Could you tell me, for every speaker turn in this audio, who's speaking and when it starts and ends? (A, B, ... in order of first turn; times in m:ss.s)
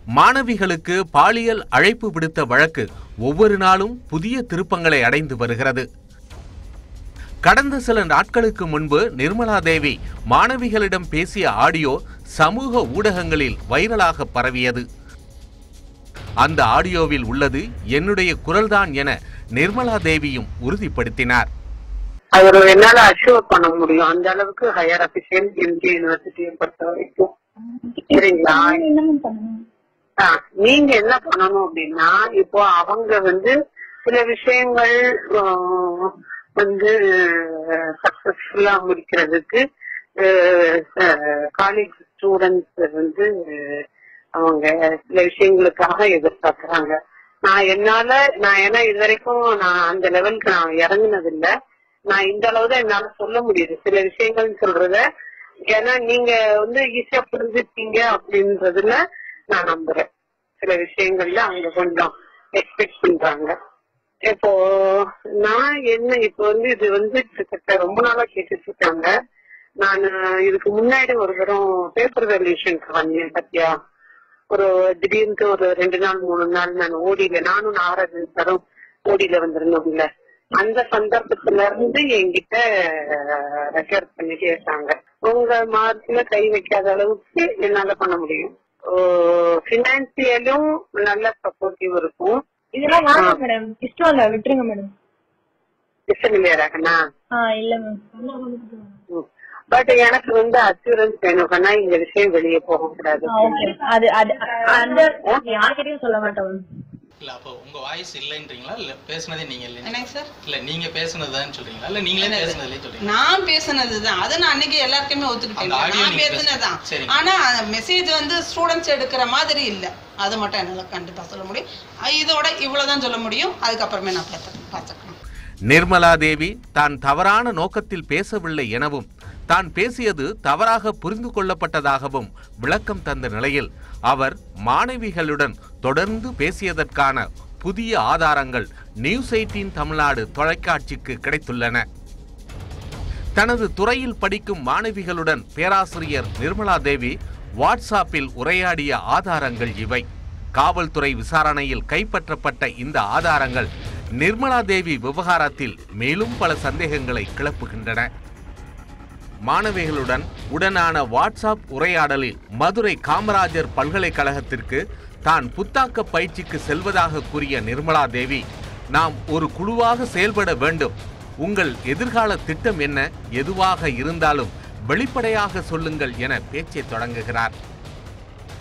0:00.2-0:05.8 A
0:07.4-0:14.8 A
0:16.4-0:21.5 A
0:22.3-0:27.3 B
0:27.9-0:29.6 C
0:28.1-0:28.8 B
0:30.2-0:33.5 B
0:34.0-0:39.6 B
0:40.2-0:43.8 B
0:44.4-0:51.5 B
0:52.1-0:55.0 B
0:55.7-0:59.0 B
0:59.5-1:00.0 B
1:00.6-1:03.5 B
1:04.3-1:09.1 B
1:09.8-1:13.7 B
1:14.5-1:20.1 B
1:20.6-1:32.4 B
1:32.7-1:34.9 C
1:36.1-1:37.0 B
1:37.3-1:38.9 C
1:39.1-1:43.7 B
1:43.3-1:46.6 C
1:44.7-1:45.4 B
1:47.2-1:53.1 D
1:49.8-1:50.3 E
1:52.2-2:05.2 E
1:55.6-1:57.2 D
2:05.7-2:21.8 A
2:23.4-2:30.0 A
2:30.6-2:38.1 A
2:39.5-2:57.5 A